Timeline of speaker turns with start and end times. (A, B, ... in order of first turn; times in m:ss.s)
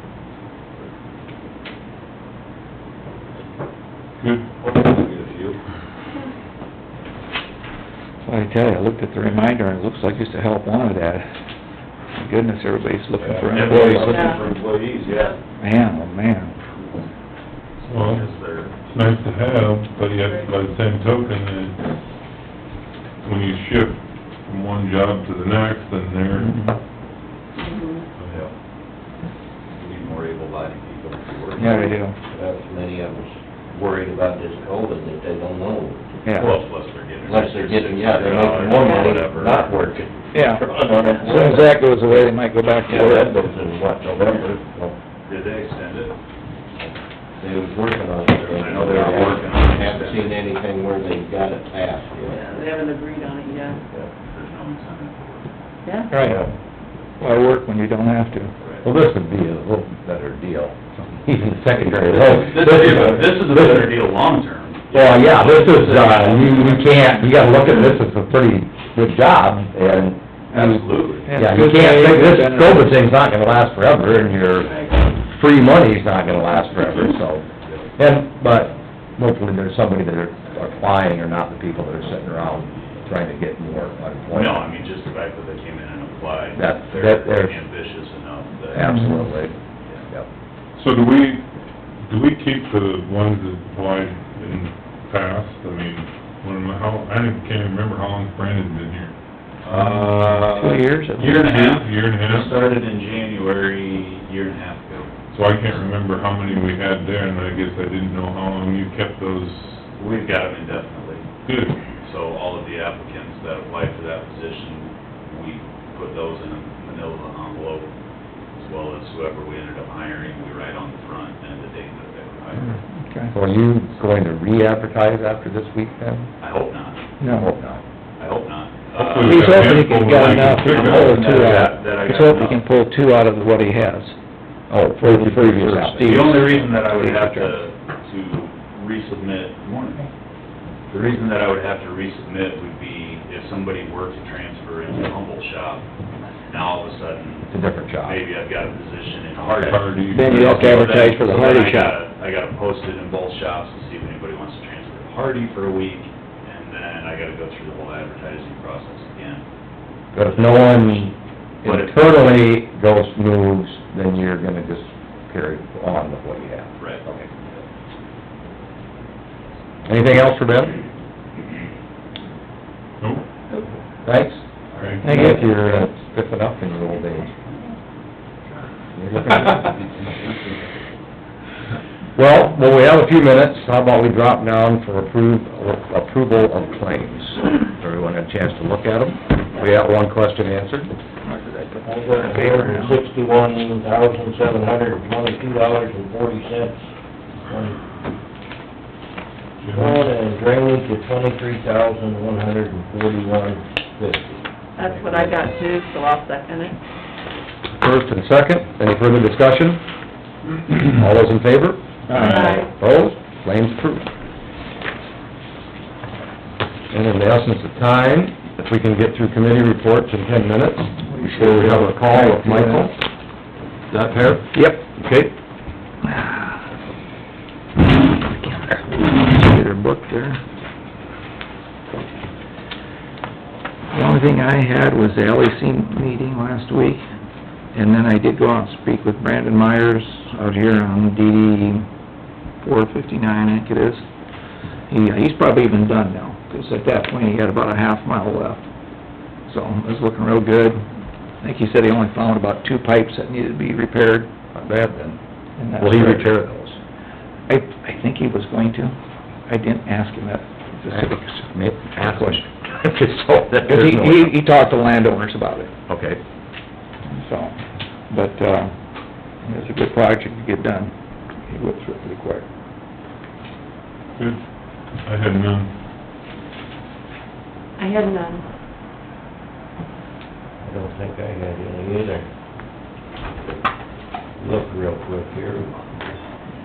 0:04.2-0:04.5 A
0:04.7-0:05.5 B
0:04.8-0:05.5 C
0:08.2-0:11.3 D
0:12.1-0:14.3 D
0:13.4-0:15.3 B
0:13.6-0:15.0 C
0:14.1-0:14.4 E
0:15.6-0:16.6 D
0:17.9-0:18.3 A
0:17.9-0:18.8 B
0:18.8-0:21.8 A
0:23.2-0:26.7 A
0:26.4-0:26.8 D
0:27.6-0:28.0 E
0:28.2-0:28.5 B
0:29.8-0:31.8 B
0:31.6-0:32.2 D
0:32.3-0:36.2 C
0:36.3-0:36.5 D
0:36.3-0:36.6 F
0:36.3-0:39.9 B
0:37.2-0:42.3 C
0:38.7-0:39.2 E
0:40.3-0:40.6 D
0:41.2-0:43.3 D
0:42.9-0:45.0 C
0:45.3-0:46.2 B
0:47.4-0:52.7 C
0:48.5-0:50.4 B
0:52.3-0:53.8 E
0:54.3-0:55.5 B
0:55.8-0:56.2 E
0:56.1-0:56.4 D
0:56.2-0:56.5 C
0:57.2-0:58.5 D
0:58.8-1:04.0 F
1:02.0-1:07.8 B
1:04.9-1:24.7 F
1:10.5-1:11.3 B
1:11.2-1:13.0 D
1:16.7-1:17.9 B
1:24.3-1:28.9 B
1:26.6-1:27.6 F
1:28.7-1:29.6 F
1:28.8-1:29.3 D
1:30.8-1:31.4 A
1:32.1-1:39.1 A
1:39.6-1:45.1 B
1:39.7-1:41.4 D
1:41.2-1:42.5 A
1:45.3-1:49.8 A
1:50.0-1:51.2 B
1:51.4-1:51.8 A
1:52.0-1:57.9 B
1:58.6-2:02.8 B
2:02.9-2:03.3 D
2:03.3-2:06.3 F
2:06.4-2:07.0 B
2:07.2-2:07.5 D
2:07.3-2:07.8 F
2:08.2-2:12.6 B
2:08.9-2:11.4 A
2:09.2-2:14.2 D
2:14.7-2:16.5 F
2:15.0-2:17.6 D
2:16.0-2:20.1 B
2:20.9-2:25.8 B
2:26.5-2:39.4 B
2:27.5-2:28.2 F
2:29.5-2:31.1 A
2:30.1-2:32.0 D
2:40.1-2:47.3 F
2:40.2-2:40.8 B
2:41.6-2:42.4 B
2:46.8-2:47.0 B
2:49.9-2:50.8 F
2:54.0-2:54.4 F
2:54.7-2:55.0 B
2:55.0-2:55.5 D
2:55.0-2:57.3 F
2:58.9-2:59.9 F
3:02.1-3:10.9 F
3:11.2-3:13.0 D
3:11.9-3:16.8 C
3:17.4-3:17.8 C
3:19.6-3:20.1 A
3:19.7-3:25.3 C
3:24.8-3:26.8 E
3:27.8-3:29.8 F
3:30.7-3:31.8 F
3:32.1-3:32.6 D
3:32.1-3:32.6 A
3:32.2-3:32.7 E
3:32.6-3:34.1 F
3:36.9-3:43.0 F
3:41.1-3:42.9 D
3:43.9-3:45.3 F
3:44.5-3:44.9 D
3:46.0-3:46.6 D
3:48.2-3:50.4 D
3:53.9-3:57.0 D
3:57.7-4:01.9 D
4:02.6-4:04.0 D
4:04.9-4:08.6 D
4:09.5-4:10.8 D
4:11.4-4:14.3 D
4:14.5-4:15.2 F
4:15.6-4:16.3 D
4:15.8-4:16.8 F
4:17.5-4:19.0 D
4:19.5-4:22.4 D
4:20.9-4:24.3 F
4:23.7-4:25.7 D
4:25.9-4:26.2 F
4:27.1-4:27.6 D
4:28.1-4:28.7 D
4:29.4-4:32.4 D
4:35.0-4:35.7 A
4:37.8-4:38.4 E
4:40.6-4:42.2 C
4:44.4-4:45.8 C